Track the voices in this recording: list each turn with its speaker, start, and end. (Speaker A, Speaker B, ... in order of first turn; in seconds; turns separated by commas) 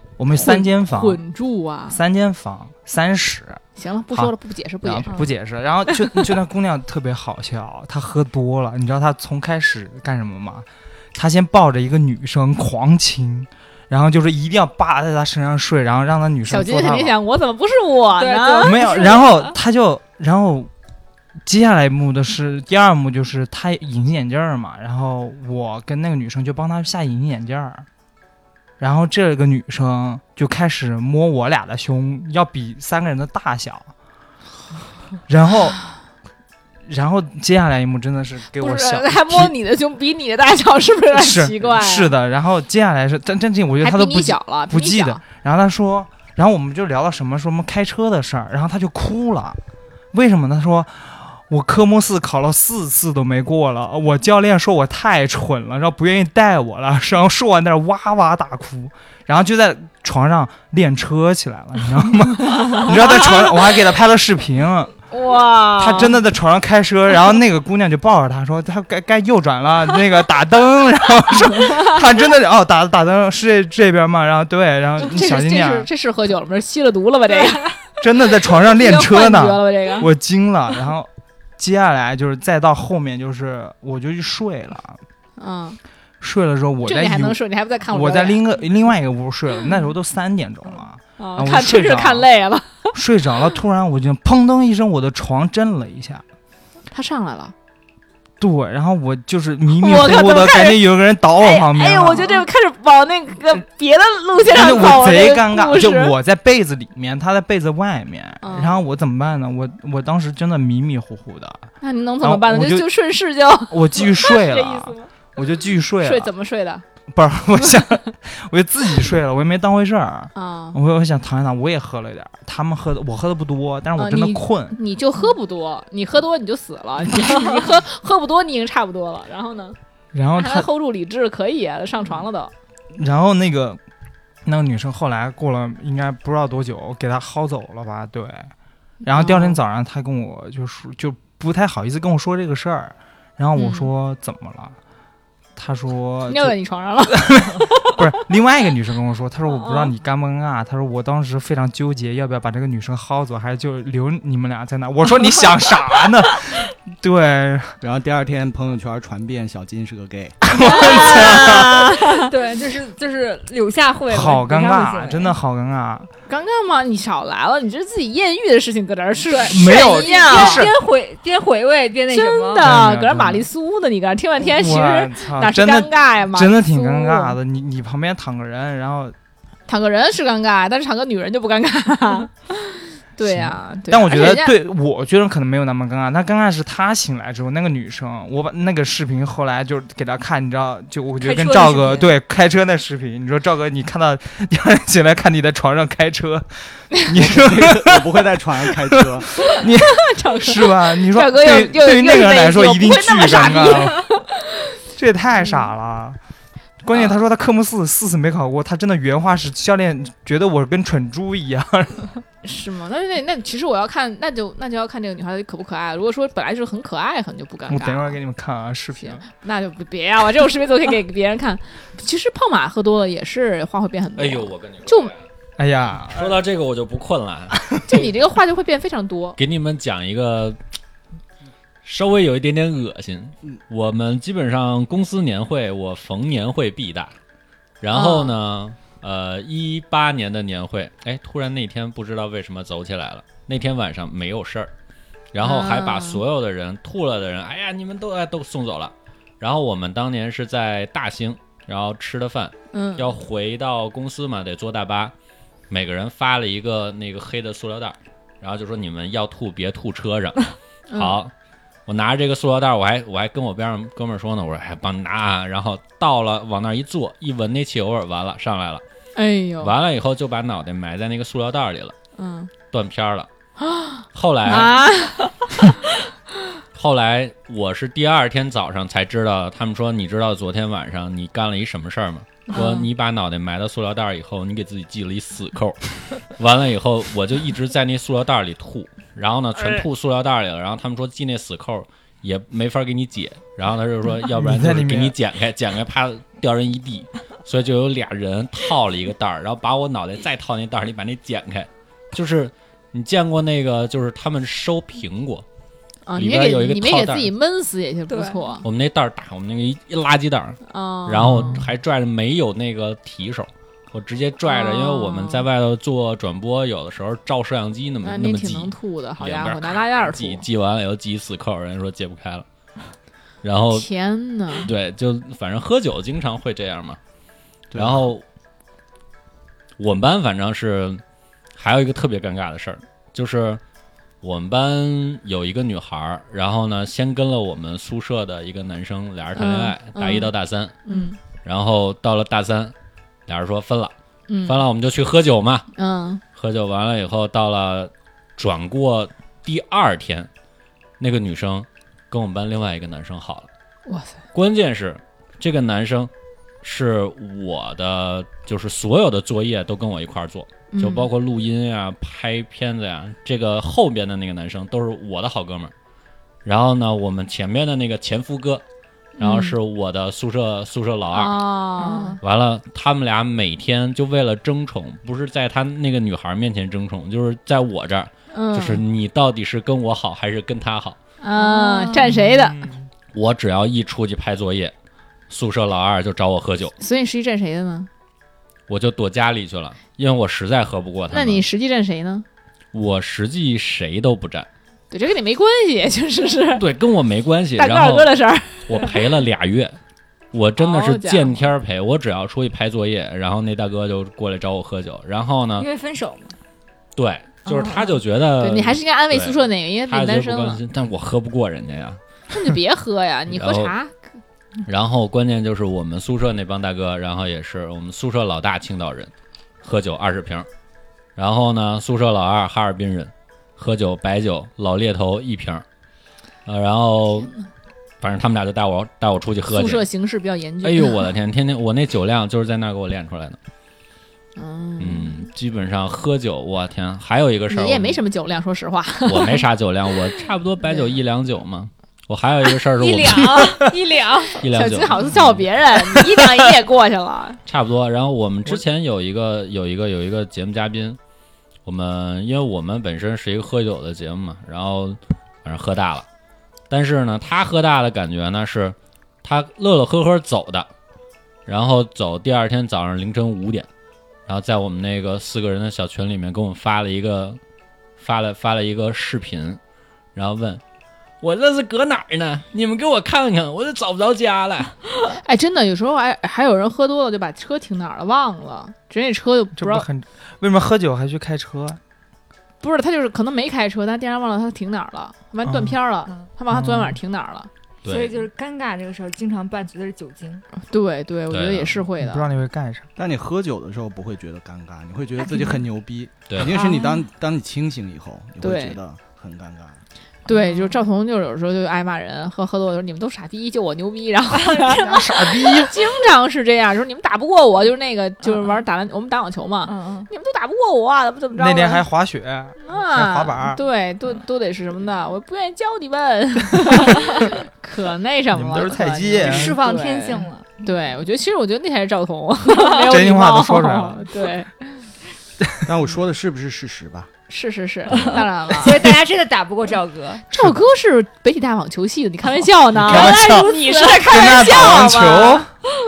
Speaker A: 0.2-1.2, Speaker B: 0.3-2.0, Speaker A: 1.9-17.2, Speaker B: 3.8-5.2, Speaker C: 5.1-5.3, Speaker B: 16.5-19.2, Speaker C: 18.2-19.6, Speaker A: 18.6-20.7, Speaker A: 21.4-27.9, Speaker A: 28.8-33.9, Speaker A: 35.3-35.8, Speaker A: 36.9-39.5, Speaker B: 38.6-42.1, Speaker A: 41.1-49.6, Speaker B: 43.8-45.2, Speaker A: 50.1-65.0, Speaker B: 62.7-63.5, Speaker B: 65.1-66.2, Speaker A: 65.8-75.9, Speaker B: 75.0-77.8, Speaker A: 78.0-85.0, Speaker B: 78.7-80.1, Speaker B: 85.4-85.8, Speaker A: 86.2-92.3, Speaker B: 86.8-88.4, Speaker B: 91.2-93.0, Speaker A: 92.9-96.2, Speaker B: 96.9-97.5, Speaker A: 98.4-102.5, Speaker B: 99.8-106.1, Speaker A: 104.5-111.7, Speaker B: 108.4-108.8, Speaker B: 111.8-115.1, Speaker A: 112.2-112.9, Speaker A: 113.7-116.3, Speaker B: 116.0-116.8, Speaker A: 117.1-124.8, Speaker B: 120.3-120.8, Speaker B: 124.0-129.8, Speaker A: 130.1-130.7, Speaker B: 130.3-132.5, Speaker A: 132.9-133.8, Speaker A: 134.4-138.5, Speaker A: 139.0-144.8, Speaker B: 139.1-139.6, Speaker B: 143.6-143.9, Speaker A: 145.6-146.6, Speaker B: 146.3-147.9, Speaker A: 147.1-157.8, Speaker B: 149.5-149.9, Speaker D: 157.8-160.4, Speaker A: 160.4-161.9, Speaker B: 160.6-162.3, Speaker C: 160.7-161.2, Speaker C: 162.2-165.4, Speaker A: 164.1-166.1, Speaker B: 166.3-170.7, Speaker C: 169.3-172.7, Speaker A: 169.4-170.7, Speaker B: 172.1-177.4, Speaker A: 172.6-173.5, Speaker A: 174.4-179.1, Speaker B: 179.7-184.6, Speaker A: 183.2-204.0, Speaker C: 191.2-192.1, Speaker D: 197.2-199.3, Speaker B: 200.0-204.4, Speaker A: 205.0-206.2, Speaker A: 206.8-212.2, Speaker B: 212.4-218.2, Speaker A: 217.7-219.3, Speaker B: 219.0-225.1, Speaker E: 224.2-225.2, Speaker A: 225.6-226.4, Speaker E: 226.1-228.1, Speaker A: 227.5-228.0, Speaker B: 227.9-229.4, Speaker E: 229.4-230.6, Speaker E: 231.8-237.1, Speaker E: 237.8-244.7, Speaker B: 237.9-238.3, Speaker E: 245.3-255.1, Speaker B: 245.4-246.2, Speaker B: 252.7-253.1, Speaker E: 255.7-261.3, Speaker B: 260.9-261.2, Speaker E: 261.9-268.8, Speaker B: 269.1-269.7, Speaker E: 269.6-271.9, Speaker B: 272.2-272.5, Speaker E: 272.7-273.3, Speaker B: 273.6-275.6, Speaker E: 274.1-274.8, Speaker E: 276.8-305.4, Speaker B: 282.5-282.9, Speaker B: 289.6-289.8, Speaker A: 294.2-295.1, Speaker B: 306.1-308.6, Speaker E: 306.1-307.3, Speaker C: 308.1-308.6, Speaker E: 308.6-322.5, Speaker B: 310.7-311.6, Speaker A: 311.3-311.6, Speaker B: 314.5-315.5, Speaker B: 318.0-320.4, Speaker E: 323.4-323.9, Speaker B: 323.7-324.7, Speaker E: 324.6-327.0, Speaker D: 327.7-328.1, Speaker E: 327.8-328.2, Speaker E: 329.8-331.0, Speaker E: 331.6-333.6, Speaker E: 334.2-340.8, Speaker B: 339.4-340.3, Speaker B: 340.9-341.2, Speaker E: 341.4-342.7, Speaker E: 343.3-343.9, Speaker B: 344.3-344.6, Speaker E: 344.4-345.7, Speaker B: 345.8-346.2, Speaker E: 346.4-350.3, Speaker E: 351.0-353.5, Speaker B: 353.9-354.2, Speaker E: 354.3-356.1, Speaker E: 356.6-365.7, Speaker B: 360.7-361.1, Speaker E: 366.4-368.6, Speaker B: 369.2-369.6, Speaker E: 369.2-371.5, Speaker B: 371.1-372.2, Speaker C: 371.8-372.2, Speaker E: 372.2-381.0, Speaker B: 378.3-378.8, Speaker B: 381.2-382.6, Speaker C: 381.4-382.1, Speaker A: 382.1-382.9, Speaker E: 383.1-384.7, Speaker E: 385.3-386.7, Speaker B: 386.8-387.9, Speaker E: 388.7-391.4, Speaker B: 391.1-392.3, Speaker E: 392.7-394.5, Speaker B: 394.9-396.7, Speaker E: 396.5-398.1, Speaker B: 397.6-399.0, Speaker E: 398.6-399.8, Speaker E: 400.3-405.7, Speaker B: 400.6-401.4, Speaker C: 405.6-406.4, Speaker E: 407.0-412.0, Speaker C: 407.5-408.0, Speaker B: 408.4-410.6, Speaker B: 412.3-414.0, Speaker E: 413.3-413.8, Speaker E: 414.6-419.1, Speaker E: 419.6-420.5, Speaker E: 421.2-425.6, Speaker E: 426.5-427.3, Speaker E: 428.0-429.9, Speaker B: 429.5-431.1, Speaker E: 430.6-433.4, Speaker B: 434.4-435.2, Speaker E: 434.8-438.0, Speaker B: 437.5-439.5, Speaker E: 439.1-443.5, Speaker C: 442.8-444.4, Speaker B: 443.1-443.4, Speaker B: 444.3-447.4, Speaker E: 444.4-445.4, Speaker E: 447.5-451.0, Speaker E: 451.6-456.1, Speaker E: 456.7-460.7, Speaker E: 461.5-463.7, Speaker E: 464.3-467.4, Speaker E: 468.0-469.6, Speaker E: 470.1-470.6, Speaker E: 471.2-474.9, Speaker B: 475.1-479.9, Speaker A: 479.6-481.8, Speaker B: 482.6-487.5, Speaker A: 485.4-485.8, Speaker A: 486.5-487.0, Speaker E: 487.8-488.1, Speaker C: 487.9-490.4, Speaker B: 490.6-492.3, Speaker E: 491.3-491.8, Speaker A: 492.0-492.9, Speaker D: 493.0-499.8, Speaker B: 496.5-497.0, Speaker C: 496.6-496.9, Speaker B: 498.4-498.8, Speaker B: 500.3-511.8, Speaker C: 500.3-500.8, Speaker C: 504.4-505.0, Speaker A: 504.7-505.8, Speaker C: 509.6-510.1, Speaker A: 511.4-513.6, Speaker B: 512.6-524.9, Speaker A: 518.3-519.6, Speaker C: 519.2-520.5, Speaker A: 522.9-524.1, Speaker A: 525.4-525.7, Speaker D: 525.7-527.1, Speaker B: 527.3-528.9, Speaker C: 528.5-530.2, Speaker B: 530.3-535.5, Speaker A: 530.3-530.6, Speaker A: 532.7-535.5, Speaker C: 532.9-534.8